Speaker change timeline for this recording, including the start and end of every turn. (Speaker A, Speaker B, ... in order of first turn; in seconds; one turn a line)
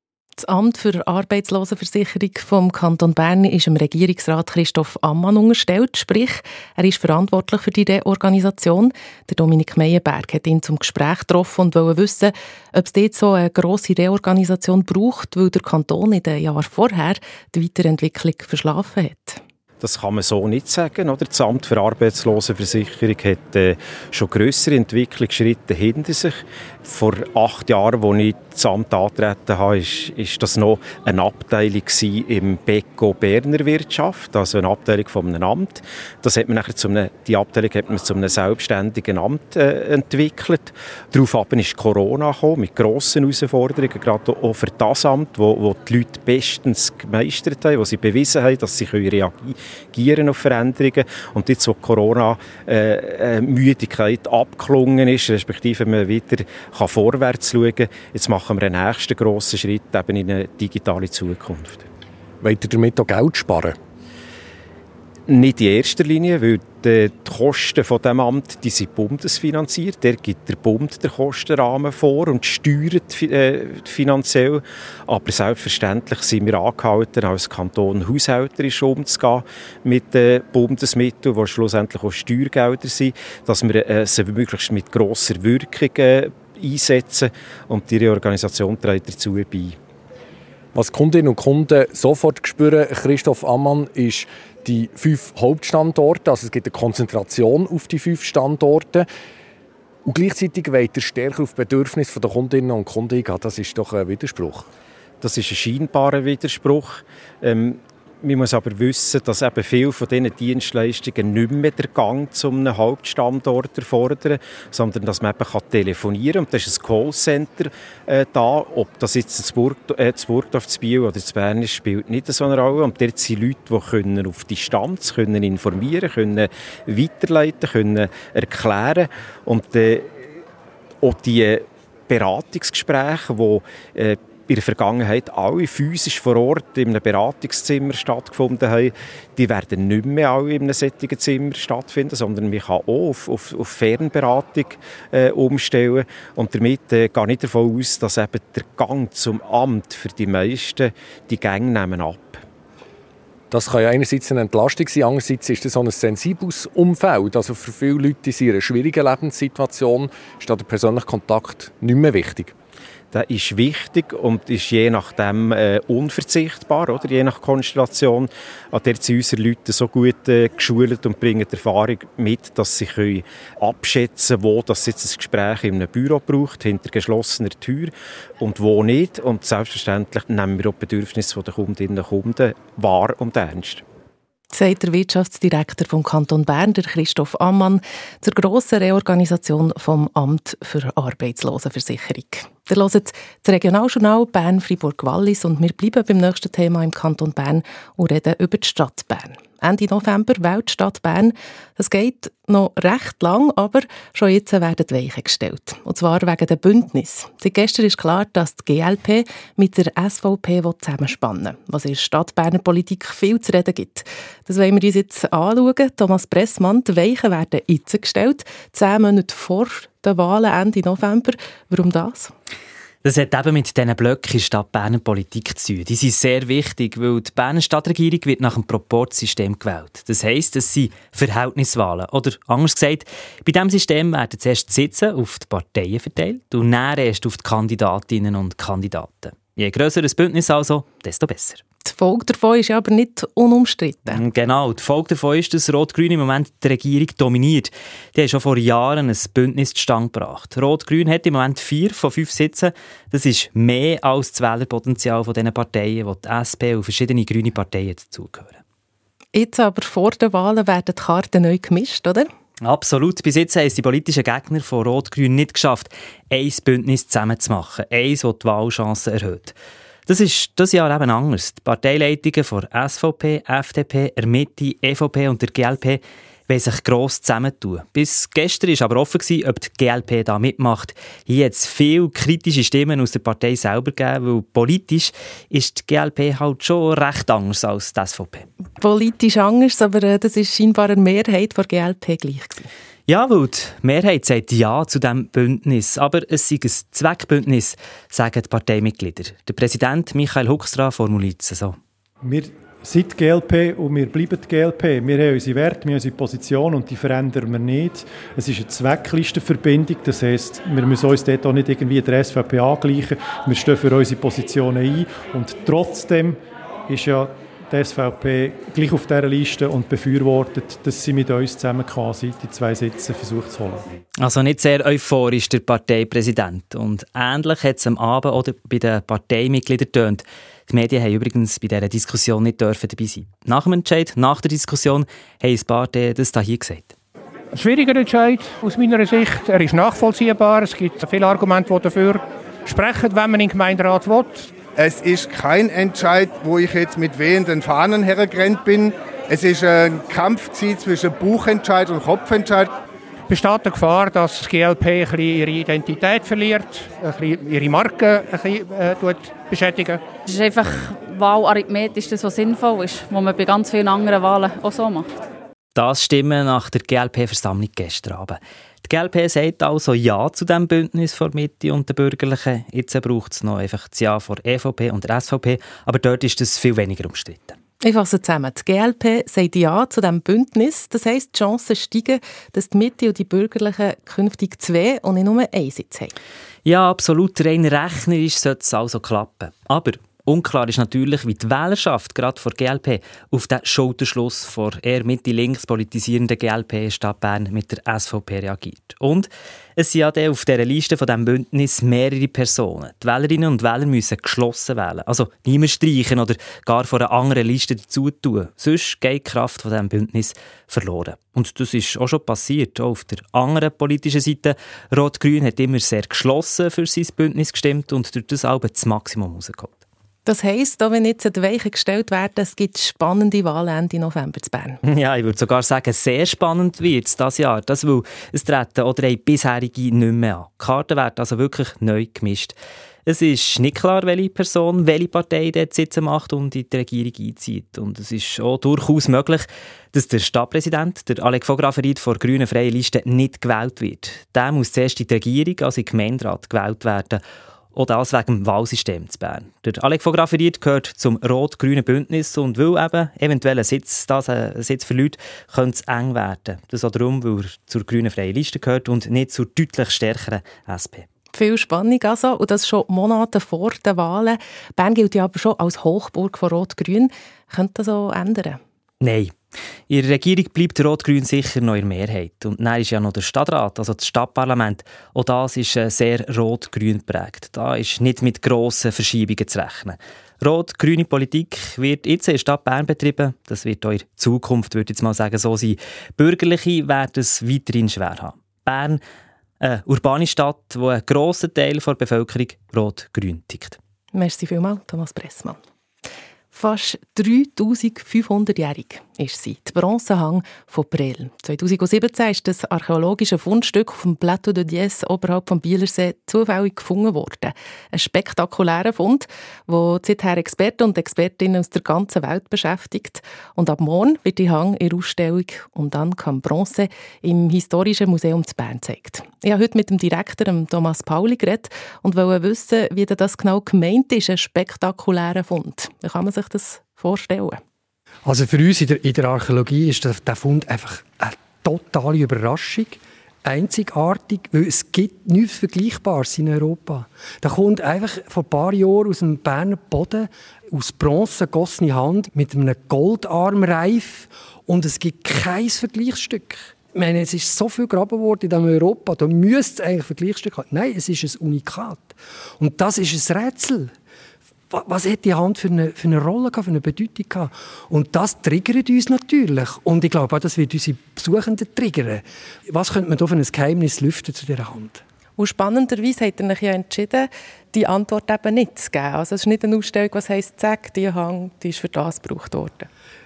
Speaker A: 0.4-19.4
Speaker B: 19.8-61.9
Speaker C: 62.4-63.8
Speaker B: 65.3-89.8
Speaker C: 90.7-99.1
Speaker C: 100.0-104.7
Speaker B: 105.2-130.1
Speaker B: 131.0-152.4
Speaker C: 153.5-162.5
Speaker B: 163.1-183.8
Speaker A: 184.5-222.3
Speaker D: 223.0-241.6
Speaker A: 241.8-244.2
Speaker D: 244.1-258.6
Speaker A: 259.3-262.3
Speaker D: 262.6-269.5
Speaker D: 270.1-288.5
Speaker A: 288.8-292.7
Speaker D: 293.1-301.8
Speaker E: 302.2-323.9
Speaker D: 324.2-336.9
Speaker F: 337.5-344.6
Speaker G: 344.7-352.7
Speaker F: 353.3-360.0
Speaker H: 360.3-365.1
Speaker D: 365.8-377.6
Speaker A: 377.8-386.1
Speaker D: 386.6-419.8
Speaker A: 420.2-424.8
Speaker D: 424.8-447.2
Speaker D: 447.7-461.1
Speaker A: 461.3-468.6
Speaker D: 469.0-469.3
Speaker D: 469.9-489.0
Speaker D: 489.6-493.8
Speaker A: 494.1-495.6
Speaker A: 496.5-527.6
Speaker I: 528.2-553.9
Speaker I: 554.7-565.0
Speaker A: 565.4-572.9